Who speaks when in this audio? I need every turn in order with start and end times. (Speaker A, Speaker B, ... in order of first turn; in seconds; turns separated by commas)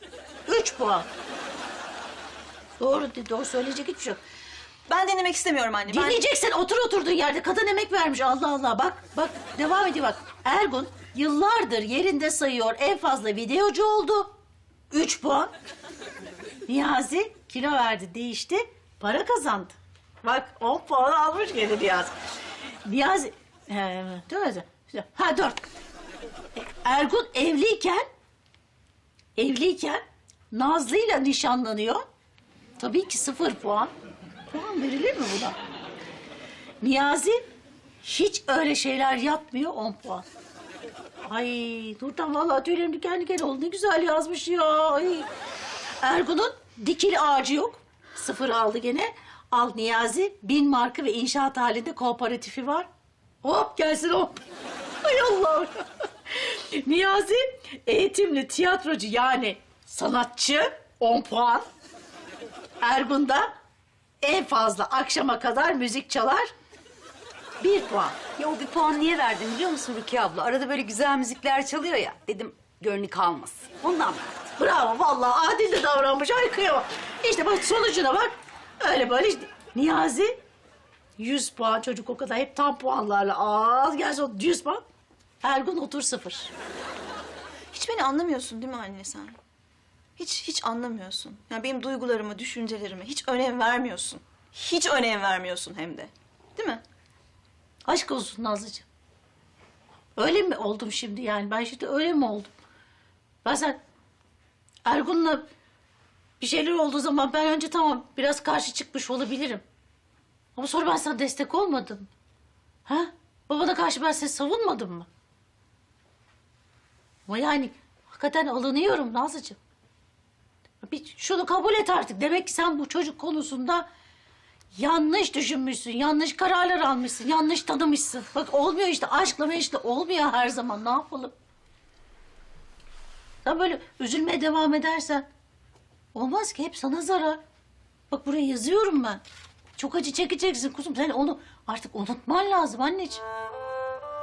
Speaker A: 0.5-1.1, Speaker A: 2.8-4.2, Speaker B: 4.9-6.2, Speaker A: 5.8-14.3, Speaker A: 14.9-15.5, Speaker A: 16.7-22.1, Speaker A: 22.8-25.6, Speaker A: 26.5-28.0, Speaker A: 29.4-32.0, Speaker A: 32.8-33.9, Speaker A: 34.5-35.6, Speaker A: 36.8-37.4, Speaker A: 38.0-40.2, Speaker A: 41.2-45.3, Speaker A: 46.0-52.9, Speaker A: 53.4-54.4, Speaker A: 55.0-61.6, Speaker A: 62.8-63.5, Speaker A: 64.2-66.5, Speaker A: 67.6-68.2, Speaker C: 68.3-74.5, Speaker A: 74.6-80.3, Speaker A: 81.2-84.8, Speaker A: 85.4-86.5, Speaker B: 87.7-89.4, Speaker B: 90.2-96.8, Speaker A: 97.8-98.8, Speaker A: 100.2-102.5, Speaker A: 103.4-103.8, Speaker A: 104.8-105.4, Speaker A: 106.4-109.6, Speaker A: 110.5-112.1, Speaker A: 112.8-115.1, Speaker A: 117.3-119.6, Speaker A: 120.8-123.8, Speaker A: 124.7-131.3, Speaker A: 133.4-135.2, Speaker A: 136.1-137.4, Speaker A: 138.1-139.2, Speaker A: 139.8-143.2